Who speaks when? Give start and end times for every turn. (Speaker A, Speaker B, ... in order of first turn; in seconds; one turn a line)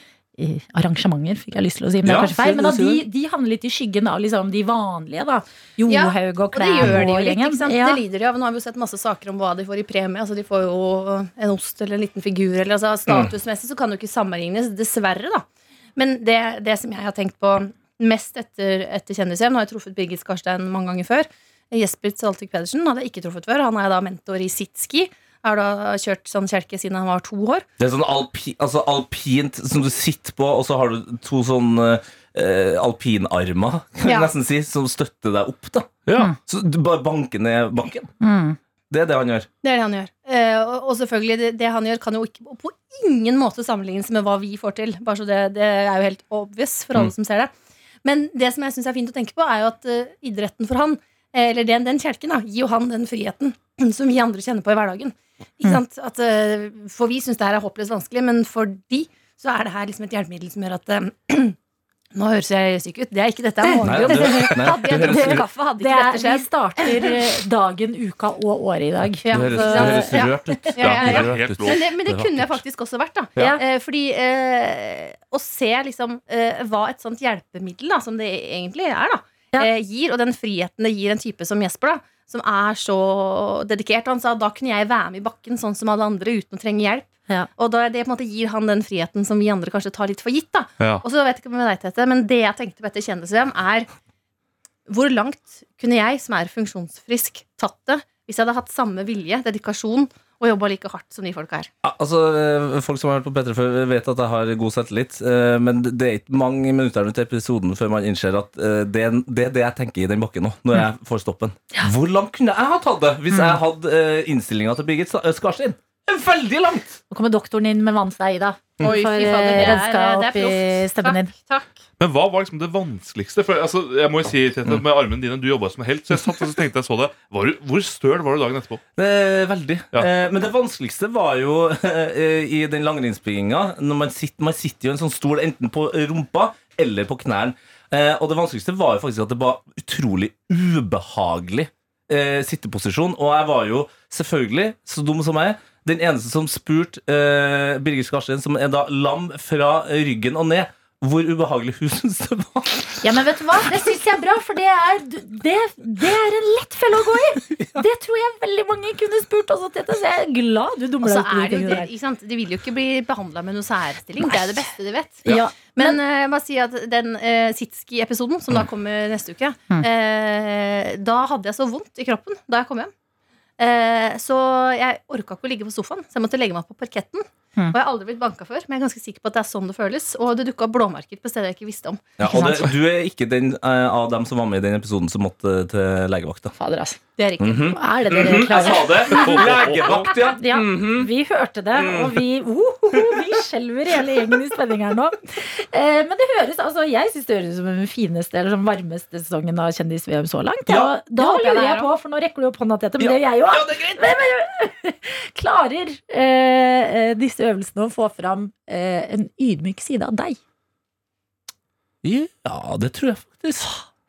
Speaker A: 0.4-8.0
Speaker B: 2.0-3.0
Speaker C: 5.9-27.6
Speaker B: 13.1-13.3
Speaker B: 27.8-38.1
Speaker C: 34.0-34.3
Speaker A: 38.2-38.6
Speaker B: 38.9-39.5
Speaker C: 39.6-47.5
Speaker C: 48.0-61.6
Speaker C: 62.1-67.2
Speaker A: 63.6-70.8
Speaker B: 63.8-65.5
Speaker C: 69.2-93.9
Speaker B: 69.3-72.6
Speaker D: 70.8-71.8
Speaker C: 94.9-101.7
Speaker B: 101.8-117.0
Speaker A: 117.1-121.3
Speaker C: 118.8-121.7
Speaker D: 122.0-128.8
Speaker B: 129.0-153.0
Speaker A: 153.0-161.9
Speaker B: 157.5-157.8
Speaker C: 161.0-172.9
Speaker A: 165.2-166.0
Speaker C: 173.6-182.2
Speaker B: 182.2-186.6
Speaker A: 182.3-182.7
Speaker A: 186.6-187.0
Speaker C: 187.2-187.8
Speaker B: 187.4-191.1
Speaker A: 187.6-210.4
Speaker C: 188.4-188.7
Speaker D: 189.0-190.1
Speaker B: 191.8-192.2
Speaker B: 193.0-193.2
Speaker C: 201.1-201.9
Speaker B: 203.0-204.2
Speaker B: 212.0-213.8